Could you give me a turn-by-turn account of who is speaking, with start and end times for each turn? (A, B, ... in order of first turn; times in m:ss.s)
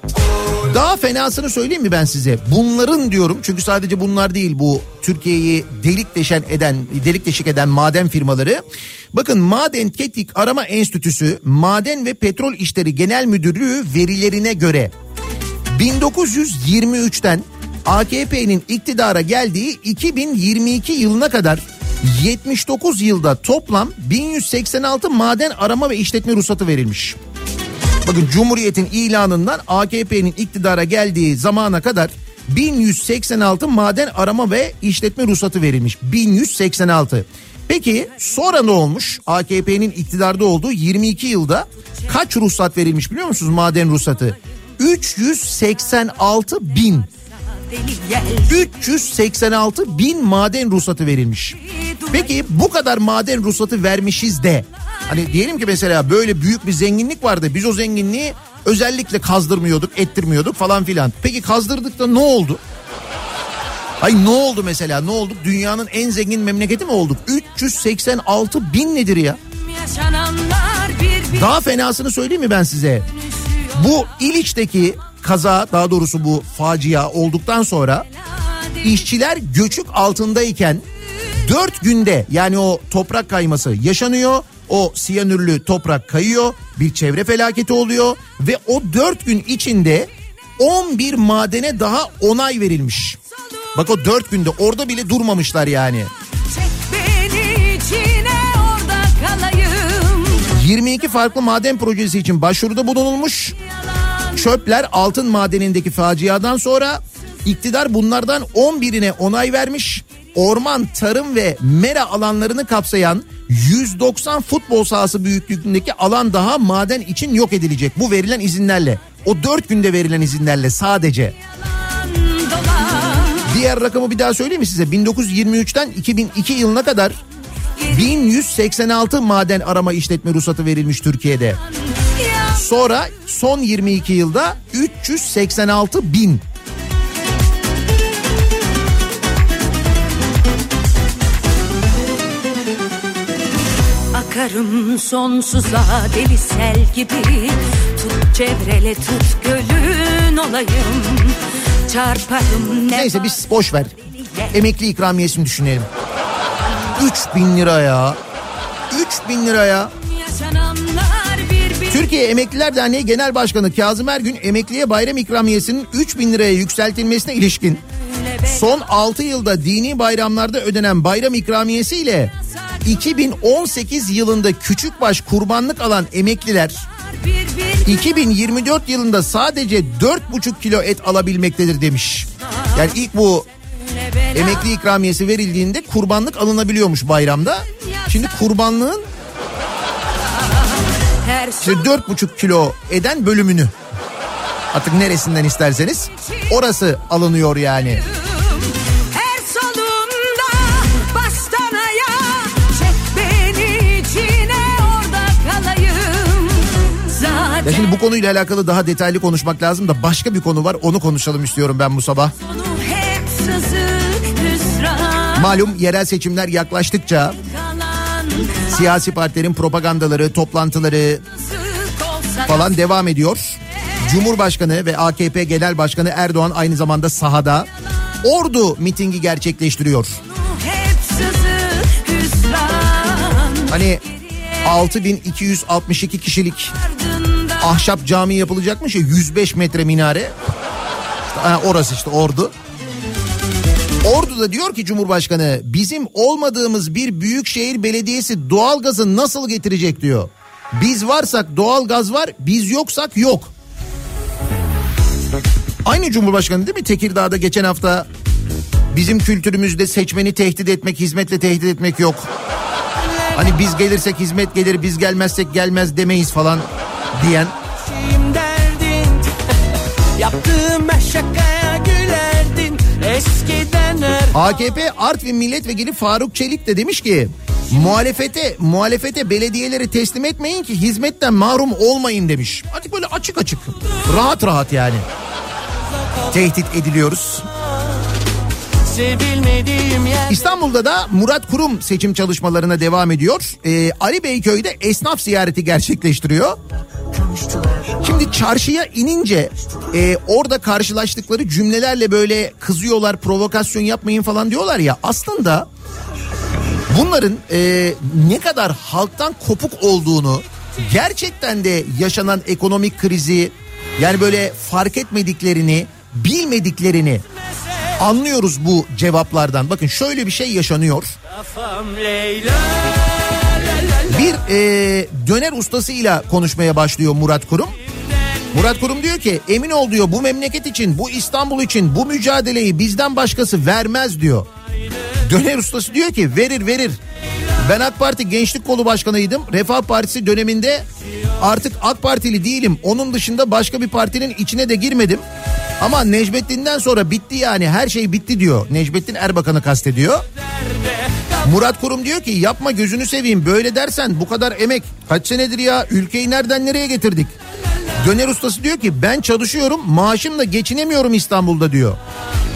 0:00.6-0:14.9 A
0:15.7-0:27.2 A
0:28.0-0:47.1 A
0:47.7-0:48.6 B
0:48.5-0:51.6 A
0:51.8-0:52.4 B
0:52.1-1:02.6 A
1:04.0-1:09.4 A
1:09.8-1:11.5 B
1:11.3-1:13.1 A
1:13.8-1:18.1 A
1:18.8-1:20.8 A
1:21.4-1:33.2 A
1:33.8-1:36.1 A
1:36.5-1:40.5 B
1:40.5-1:43.6 A
1:44.3-2:01.4 A
2:02.3-2:03.4 B
2:03.4-2:07.2 A
2:07.9-2:11.6 A
2:12.5-2:16.4 A
2:24.1-2:33.3 B
2:32.9-2:33.9 A
2:34.5-2:35.9 A
2:37.0-2:38.2 A
2:38.9-2:39.9 A
2:40.2-2:42.0 B
2:41.9-2:47.8 A
2:48.3-2:48.6 B
2:48.5-2:56.9 A
2:57.2-2:58.0 B
2:57.8-3:03.5 A
3:04.3-3:09.1 A
3:11.2-3:11.9 B
3:11.6-3:13.7 A
3:14.7-3:18.0 A
3:19.1-3:27.9 B
3:27.6-3:32.3 A
3:32.4-3:35.6 B
3:35.3-3:37.4 A
3:37.5-3:38.8 B
3:38.7-3:41.2 A
3:41.5-3:42.7 B
3:42.4-3:47.7 A
3:48.2-3:50.2 A
3:50.4-3:53.7 B
3:53.7-3:54.0 A
3:54.6-3:56.8 A
3:57.0-3:57.6 B
3:57.6-4:00.4 A
4:01.3-4:02.5 A
4:04.0-4:13.5 A
4:15.8-4:18.1 A
4:18.9-4:22.3 A
4:23.3-4:27.6 A
4:28.2-4:29.2 C
4:30.6-4:34.1 C
4:34.3-4:45.1 A
4:46.3-4:47.5 A
4:49.1-4:50.1 C
4:50.3-4:56.6 A
4:58.0-5:05.7 A
5:06.9-5:17.2 A
5:18.0-5:21.1 A
5:24.1-5:27.7 A
5:28.5-5:34.5 A
5:35.2-5:37.0 A
5:37.6-5:40.9 A
5:41.4-5:45.2 A
5:45.8-5:50.2 A
5:51.4-5:57.4 A
5:58.0-6:02.0 A